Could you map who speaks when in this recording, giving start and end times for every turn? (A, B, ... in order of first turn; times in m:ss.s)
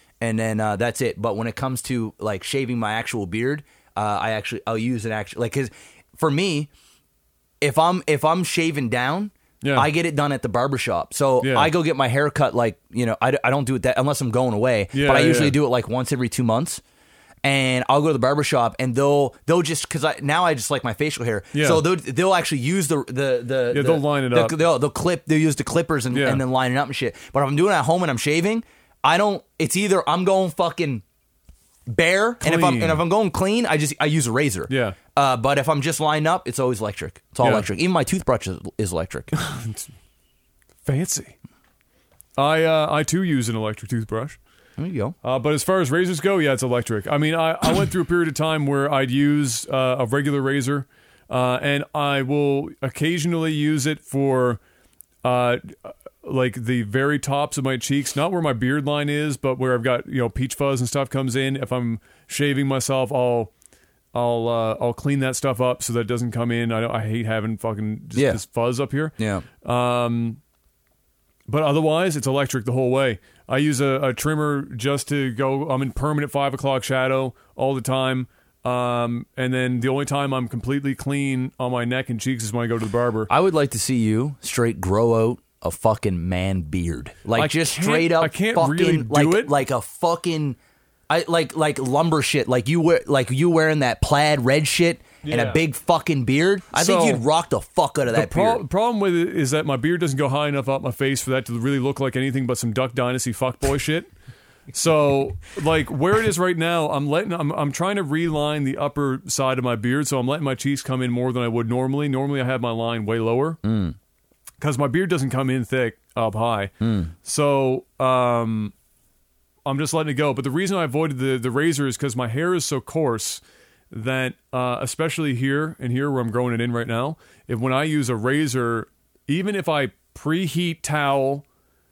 0:00.2-0:06.7 A
0:07.6-0:16.8 A
0:09.6-0:09.9 B
0:11.4-0:11.7 B
0:14.9-0:15.6 B
0:17.4-0:31.0 A
0:21.5-0:21.8 B
0:23.7-0:24.5 B
0:26.1-0:26.4 B
0:31.9-0:39.3 A
0:32.4-0:33.0 B
0:34.7-0:35.0 B
0:37.4-0:37.6 B
0:39.3-0:39.9 B
0:40.8-0:41.3 B
0:42.4-0:44.4 B
0:44.8-0:45.2 A
0:45.2-0:54.6 B
0:55.2-1:03.5 B
1:04.1-1:10.4 B
1:08.1-1:08.4 A
1:09.2-1:09.4 A
1:11.5-1:23.3 B
1:23.3-1:30.6 A
1:27.3-1:29.5 B
1:31.1-1:38.6 A
1:35.2-1:35.6 B
1:36.7-1:37.2 B
1:38.1-1:44.1 B
1:44.7-1:53.6 B
1:53.6-1:54.0 A
1:54.6-1:58.7 B
1:56.8-1:57.1 A
1:59.6-2:11.4 B